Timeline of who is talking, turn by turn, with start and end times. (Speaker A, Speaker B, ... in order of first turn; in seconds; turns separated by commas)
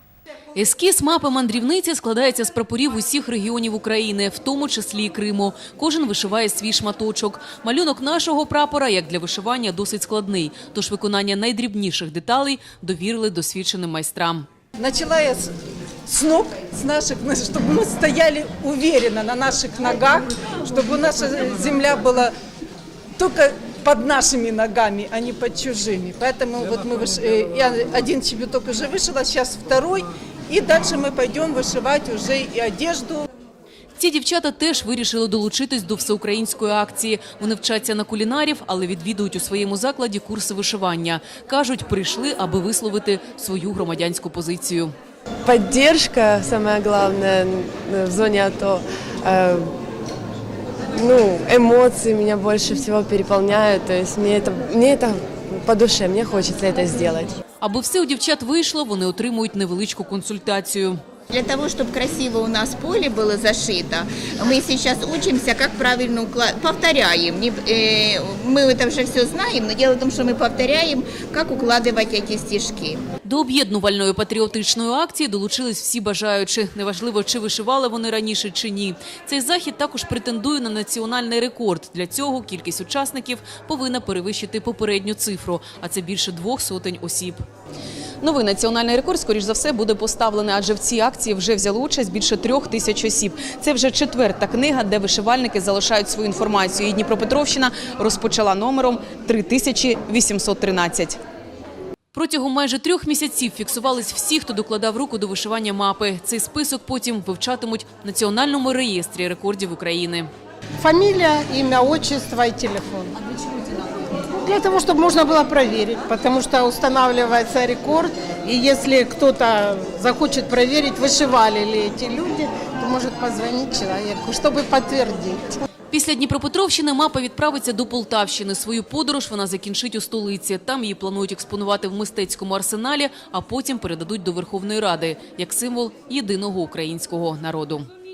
Speaker A: 0.6-14.5, Speaker B: 14.8-15.5, Speaker B: 16.1-22.3, Speaker B: 23.2-33.2, Speaker A: 34.0-44.9, Speaker C: 45.5-49.7, Speaker C: 50.9-57.4, Speaker A: 57.6-61.0, Speaker D: 61.3-73.0, Speaker A: 73.2-87.4, Speaker A: 88.2-101.2, Speaker A: 102.1-110.3, Speaker E: 110.8-113.1, Speaker E: 114.4-125.6, Speaker A: 125.9-137.9